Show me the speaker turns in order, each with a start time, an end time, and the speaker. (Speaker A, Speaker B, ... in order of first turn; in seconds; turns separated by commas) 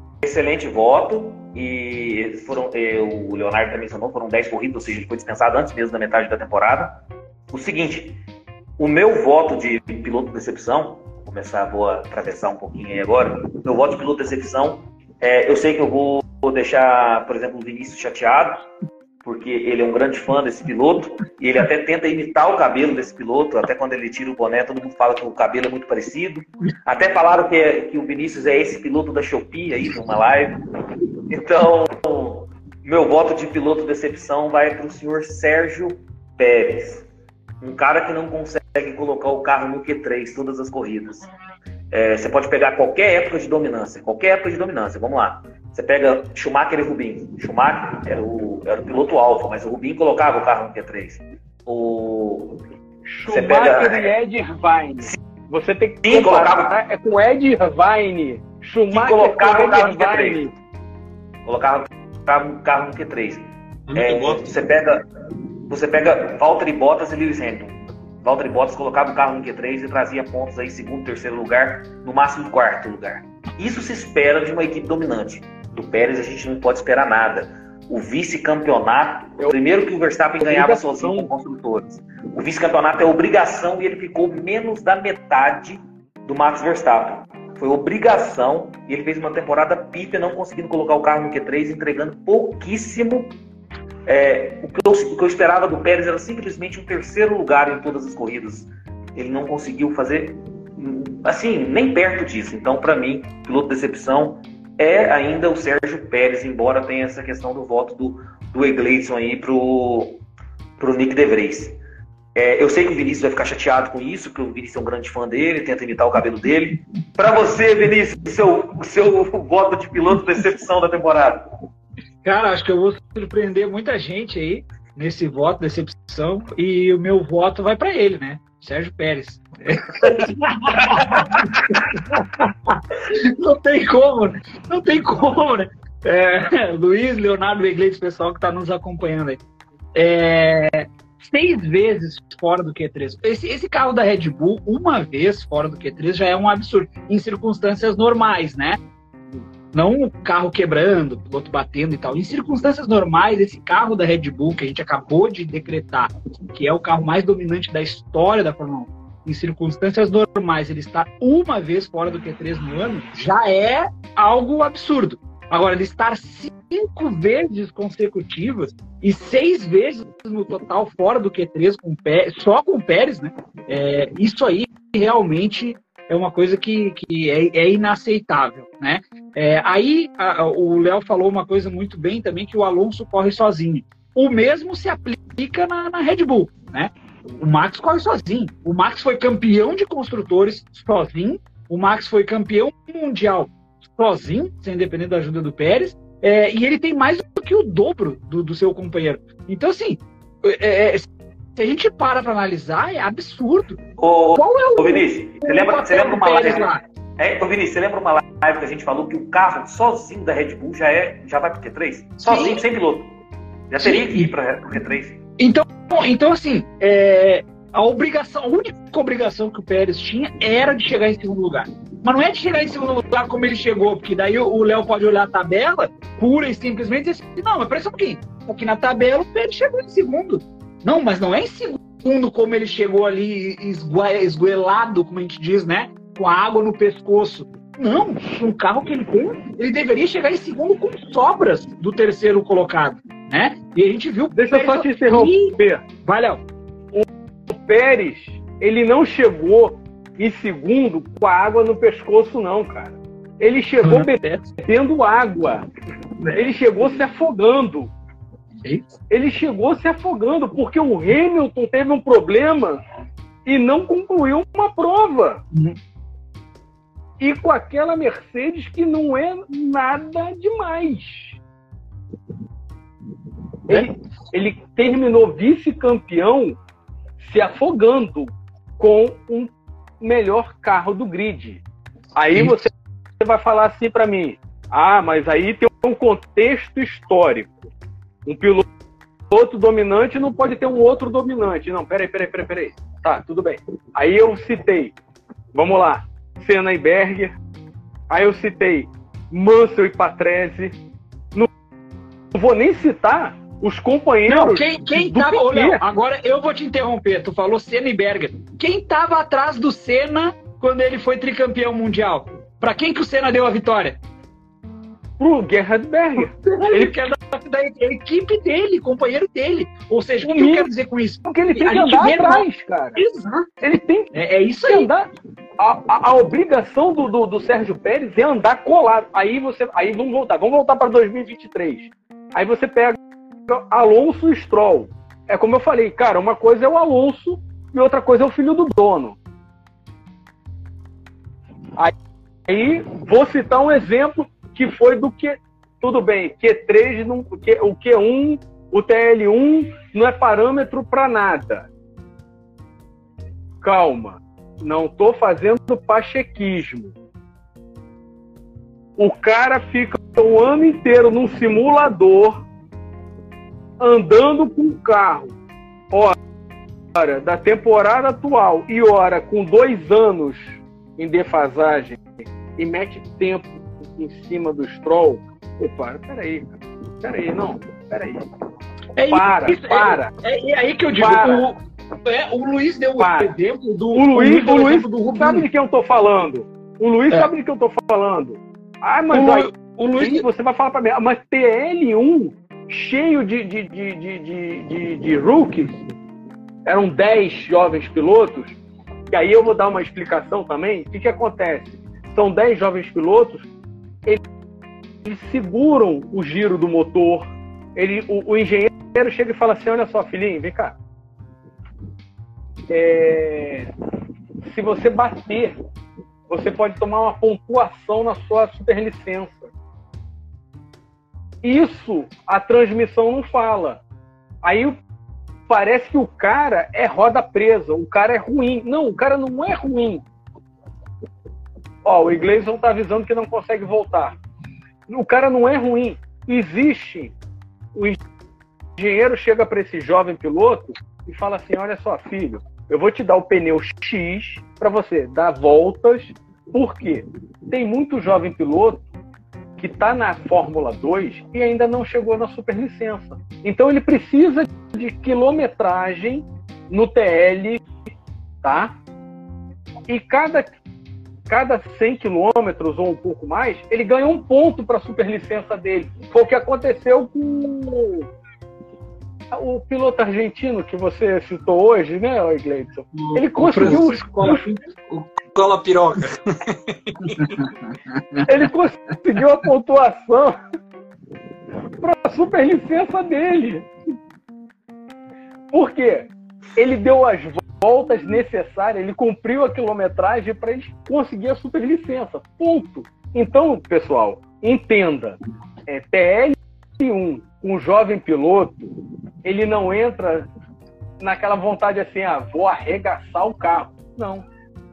Speaker A: 0.2-8.2, Speaker A: 8.8-18.6, Speaker A: 19.2-30.6, Speaker A: 31.3-37.1, Speaker A: 37.6-41.2, Speaker A: 41.9-52.6, Speaker B: 53.0-60.5, Speaker A: 53.2-54.1, Speaker A: 56.0-56.8, Speaker A: 58.9-60.5, Speaker A: 61.5-65.0, Speaker C: 63.9-64.6, Speaker A: 65.7-93.3, Speaker B: 80.4-81.3, Speaker A: 94.0-110.2, Speaker A: 110.8-111.8, Speaker A: 112.3-121.5, Speaker D: 122.2-139.4, Speaker A: 130.8-131.4, Speaker D: 139.9-148.8, Speaker D: 149.7-203.8, Speaker A: 204.0-213.1, Speaker D: 204.3-206.8, Speaker D: 212.2-212.6, Speaker A: 213.7-215.2, Speaker D: 213.8-214.3, Speaker D: 215.4-246.4, Speaker B: 244.3-245.8, Speaker B: 246.9-255.7, Speaker D: 253.8-254.5, Speaker B: 256.3-257.9, Speaker D: 258.6-258.9, Speaker B: 259.1-262.8, Speaker B: 263.4-265.4, Speaker D: 265.5-265.8, Speaker B: 267.2-271.4, Speaker B: 273.7-276.6, Speaker B: 277.2-281.6, Speaker B: 282.1-287.5, Speaker B: 288.2-288.6, Speaker B: 289.3-294.9, Speaker B: 295.5-297.3, Speaker B: 298.1-300.8, Speaker B: 302.3-305.8, Speaker D: 304.2-314.0, Speaker B: 315.2-316.9, Speaker D: 316.2-324.9, Speaker B: 320.2-320.7, Speaker B: 321.2-323.0, Speaker B: 323.6-324.1, Speaker B: 324.6-339.2, Speaker B: 342.5-351.7, Speaker B: 353.6-356.9, Speaker B: 359.0-362.4, Speaker B: 363.8-365.3, Speaker B: 365.9-366.1, Speaker B: 366.9-378.2, Speaker D: 378.9-385.5, Speaker B: 379.1-380.1, Speaker B: 381.0-381.4, Speaker B: 383.0-383.3, Speaker B: 383.9-395.8, Speaker D: 389.1-390.3, Speaker B: 396.6-398.6, Speaker B: 399.1-403.5, Speaker B: 405.0-410.8, Speaker B: 412.7-413.7, Speaker B: 414.4-415.6, Speaker B: 416.3-419.5, Speaker B: 421.4-423.8, Speaker B: 424.4-424.8, Speaker B: 425.5-430.0, Speaker B: 431.8-434.2, Speaker B: 434.9-437.1, Speaker B: 437.7-438.0, Speaker B: 438.8-448.9, Speaker B: 449.6-457.6, Speaker B: 458.4-458.7, Speaker B: 459.9-460.6, Speaker B: 461.3-468.1, Speaker B: 469.3-474.4, Speaker D: 473.0-474.6, Speaker C: 473.5-474.3, Speaker C: 474.9-477.5, Speaker D: 477.9-478.2, Speaker B: 478.2-480.4, Speaker B: 481.8-483.7, Speaker B: 485.5-498.7, Speaker B: 499.2-500.3, Speaker B: 501.0-504.2